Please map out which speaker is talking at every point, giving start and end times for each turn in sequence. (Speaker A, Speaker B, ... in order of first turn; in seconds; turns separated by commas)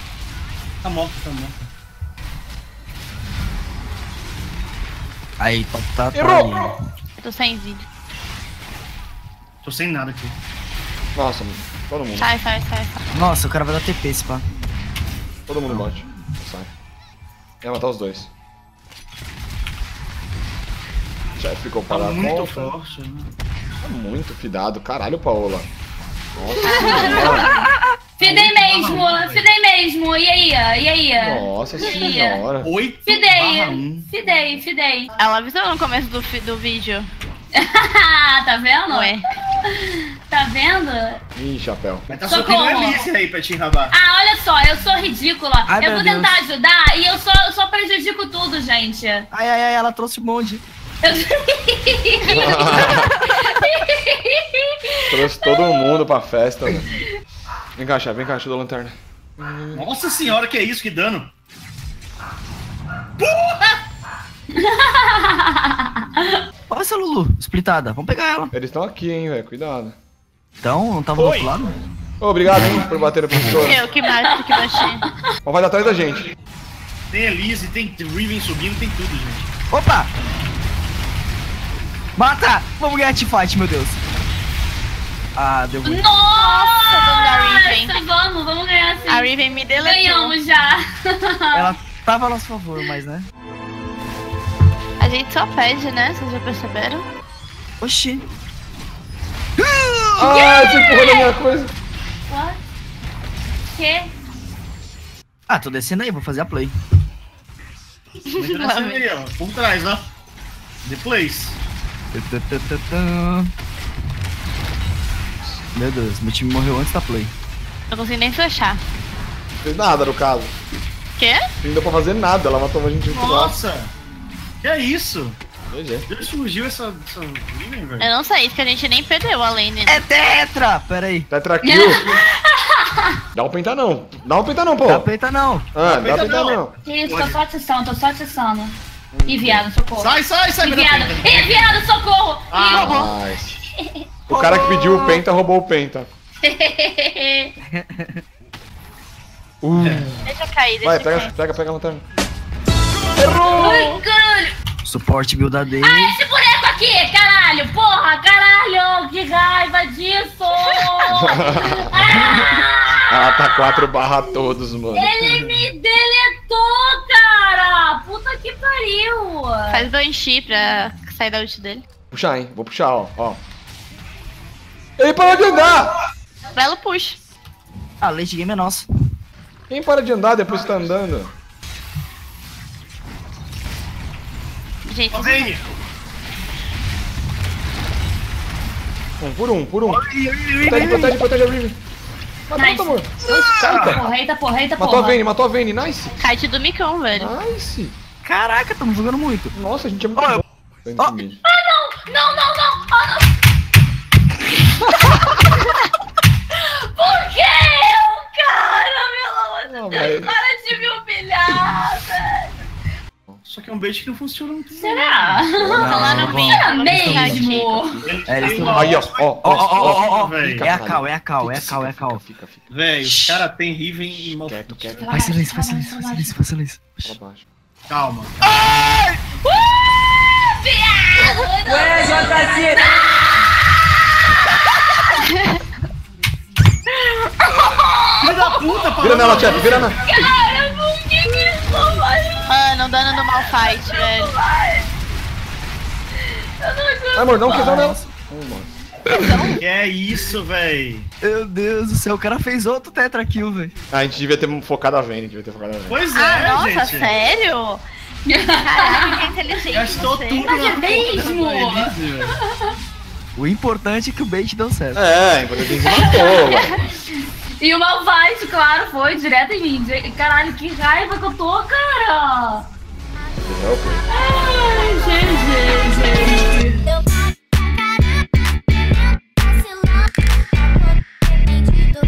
Speaker A: 0.8-1.7, Speaker B: 5.4-6.7, Speaker C: 6.1-6.7, Speaker D: 7.2-7.8, Speaker A: 9.6-10.3, Speaker C: 11.1-12.3, Speaker D: 12.1-13.0, Speaker B: 13.1-14.4, Speaker C: 15.5-16.7, Speaker C: 17.6-18.3, Speaker C: 21.4-22.7, Speaker A: 21.9-23.3, Speaker C: 23.8-25.7, Speaker C: 26.3-27.5, Speaker D: 26.6-27.5, Speaker E: 26.6-27.6, Speaker B: 27.0-27.9, Speaker A: 28.2-29.4, Speaker E: 28.2-31.5, Speaker C: 31.2-32.7, Speaker E: 32.0-32.4, Speaker A: 32.6-34.1, Speaker E: 33.0-35.1, Speaker D: 35.2-37.1, Speaker E: 37.5-41.2, Speaker D: 38.9-39.2, Speaker C: 41.4-42.1, Speaker A: 42.1-44.0, Speaker E: 42.2-43.1, Speaker E: 43.9-49.3, Speaker B: 45.7-46.4, Speaker B: 49.3-50.6, Speaker E: 51.0-55.9, Speaker C: 52.2-53.1, Speaker B: 52.7-53.2, Speaker C: 55.1-56.9, Speaker C: 57.8-59.9, Speaker A: 59.7-61.3, Speaker A: 63.2-63.8, Speaker E: 64.5-66.4, Speaker B: 66.7-68.5, Speaker C: 68.5-69.9, Speaker B: 70.6-71.8, Speaker A: 71.2-71.5, Speaker C: 72.2-73.8, Speaker D: 73.5-75.0, Speaker E: 74.0-75.1, Speaker C: 75.4-76.3, Speaker A: 77.1-79.5, Speaker B: 79.7-80.1, Speaker B: 82.2-84.0, Speaker B: 85.3-86.1, Speaker E: 85.8-91.8, Speaker D: 86.3-88.0, Speaker D: 89.1-90.3, Speaker B: 91.5-93.3, Speaker D: 95.0-97.0, Speaker B: 97.8-98.2, Speaker B: 99.6-100.2, Speaker C: 100.2-101.7, Speaker E: 100.2-101.3, Speaker E: 102.3-102.6, Speaker E: 103.7-104.1, Speaker B: 105.5-106.7, Speaker D: 108.3-109.0, Speaker A: 108.3-110.1, Speaker A: 110.8-111.6, Speaker B: 112.1-113.5, Speaker B: 115.7-117.3, Speaker D: 117.9-118.8, Speaker C: 119.6-120.5, Speaker C: 121.6-123.5, Speaker A: 123.1-123.9, Speaker A: 124.6-125.4, Speaker C: 125.7-126.1, Speaker A: 126.1-128.1, Speaker D: 128.0-130.0, Speaker B: 129.9-131.3, Speaker C: 131.3-132.1, Speaker E: 131.6-133.2, Speaker C: 133.3-135.1, Speaker B: 134.8-135.7, Speaker C: 135.7-136.7, Speaker A: 135.8-137.4, Speaker E: 136.8-142.9, Speaker C: 139.1-139.6, Speaker A: 140.0-141.7, Speaker A: 142.5-143.1, Speaker C: 142.7-143.5, Speaker E: 143.8-144.1, Speaker B: 144.3-145.2, Speaker C: 144.3-146.1, Speaker E: 146.4-147.5, Speaker B: 147.7-148.2, Speaker C: 149.6-150.2, Speaker A: 149.8-150.1, Speaker D: 150.2-151.3, Speaker C: 150.8-152.0, Speaker C: 153.2-154.0, Speaker E: 153.5-154.5, Speaker B: 154.8-156.2, Speaker E: 155.8-163.0, Speaker D: 160.7-161.0, Speaker C: 161.1-162.4, Speaker C: 163.1-165.1, Speaker E: 164.9-169.9, Speaker A: 165.2-165.6, Speaker D: 169.7-171.8, Speaker C: 172.1-173.4, Speaker C: 175.0-175.9, Speaker D: 176.5-177.2, Speaker B: 178.0-178.8, Speaker C: 179.7-181.3, Speaker D: 184.8-185.5, Speaker A: 185.1-185.6, Speaker C: 189.2-190.0, Speaker B: 189.9-191.2, Speaker C: 190.6-191.8, Speaker C: 192.5-194.1, Speaker E: 192.5-195.2, Speaker B: 193.2-194.0, Speaker C: 194.8-196.2, Speaker D: 196.1-197.3, Speaker C: 197.1-197.9, Speaker B: 198.2-199.5, Speaker C: 199.5-201.4, Speaker B: 200.1-200.4, Speaker E: 201.4-203.3, Speaker E: 206.5-212.5, Speaker C: 209.7-210.3, Speaker A: 213.4-215.5, Speaker E: 214.7-215.8, Speaker C: 215.5-216.4, Speaker B: 215.7-217.5, Speaker D: 215.8-217.8, Speaker E: 216.5-218.0, Speaker C: 217.1-222.7, Speaker A: 218.0-220.7, Speaker B: 218.2-222.2, Speaker A: 222.7-225.1, Speaker B: 223.0-223.4, Speaker C: 224.3-225.1, Speaker E: 225.0-226.4, Speaker B: 225.1-227.2, Speaker C: 227.1-227.4, Speaker A: 227.9-228.7, Speaker B: 228.4-229.3, Speaker E: 230.5-233.5, Speaker E: 234.6-235.1, Speaker D: 235.2-235.6, Speaker E: 236.9-238.8, Speaker A: 238.2-239.9, Speaker C: 239.0-240.0, Speaker E: 239.5-244.9, Speaker D: 242.5-244.3, Speaker E: 246.6-247.7, Speaker C: 247.1-248.7, Speaker B: 247.4-248.1, Speaker D: 249.1-249.6, Speaker A: 249.6-251.1, Speaker B: 251.2-253.7, Speaker C: 253.9-256.0, Speaker A: 255.9-257.1, Speaker D: 256.1-257.8, Speaker E: 258.2-259.3, Speaker D: 258.6-260.6, Speaker A: 259.7-262.3, Speaker E: 260.4-262.7, Speaker B: 263.4-265.0, Speaker C: 264.9-266.8, Speaker E: 265.6-267.0, Speaker E: 267.6-272.7, Speaker C: 273.4-274.0, Speaker E: 274.1-276.9